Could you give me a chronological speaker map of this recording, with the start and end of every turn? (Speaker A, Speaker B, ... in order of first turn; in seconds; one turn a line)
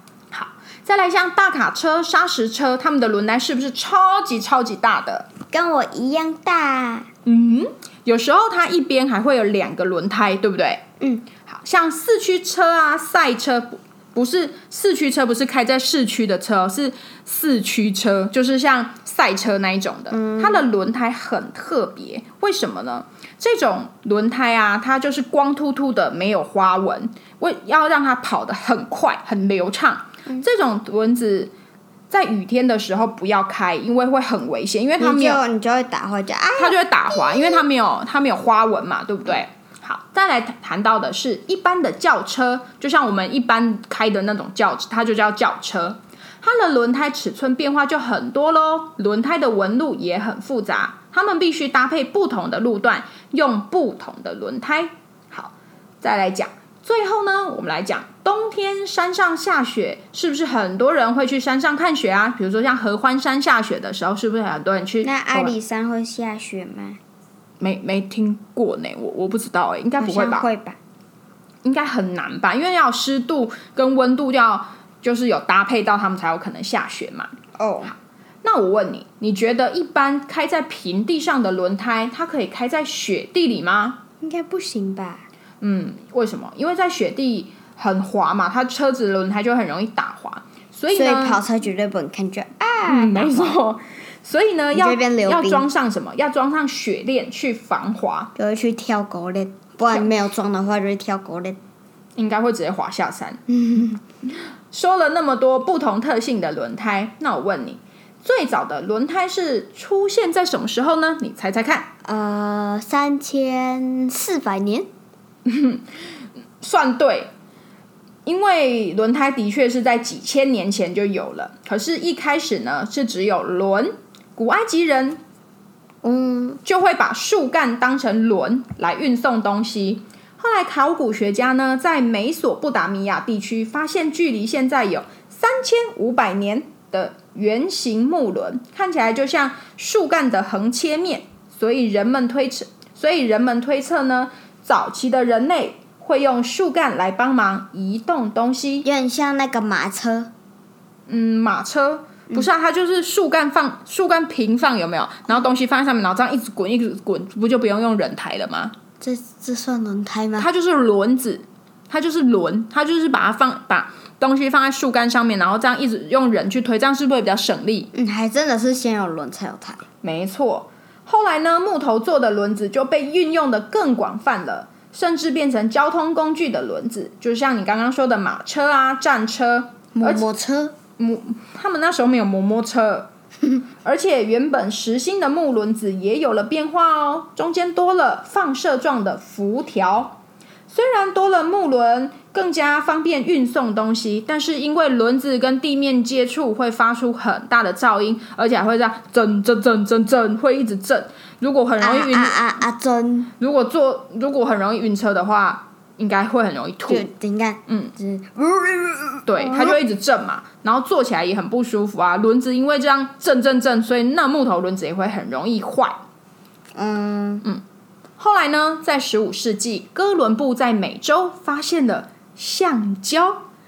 Speaker A: 0.3-5.3
Speaker B: 5.5-7.1
Speaker A: 7.2-10.8
Speaker B: 11.0-11.2
Speaker A: 11.5-31.5
Speaker B: 20.1-20.6
Speaker A: 32.1-35.4
Speaker B: 35.0-37.6
Speaker A: 36.6-65.5
Speaker B: 65.0-67.0
Speaker A: 67.6-70.5
Speaker B: 70.0-70.8
Speaker A: 71.6-77.3
Speaker B: 77.6-77.9
Speaker A: 78.4-84.0
Speaker B: 84.2-85.2
Speaker A: 85.6-91.4
Speaker B: 90.9-93.6
Speaker A: 92.8-98.3
Speaker B: 94.7-95.6
Speaker B: 98.3-101.6
Speaker A: 102.2-103.4
Speaker B: 103.5-104.0
Speaker A: 104.7-111.9
Speaker B: 112.0-114.9
Speaker A: 115.5-115.8
Speaker A: 116.6-117.3
Speaker A: 118.2-125.2
Speaker B: 126.0-126.6
Speaker A: 126.6-148.8
Speaker B: 148.8-150.3
Speaker A: 151.1-158.7
Speaker B: 159.0-160.5
Speaker A: 160.4-167.9
Speaker B: 167.9-169.8
Speaker A: 170.0-180.2
Speaker B: 179.9-180.7
Speaker A: 181.0-183.1
Speaker A: 183.8-202.4
Speaker B: 201.8-203.3
Speaker A: 203.4-207.1
Speaker B: 206.9-209.8
Speaker A: 207.7-207.9
Speaker A: 209.3-216.0
Speaker B: 216.8-217.4
Speaker A: 218.2-223.4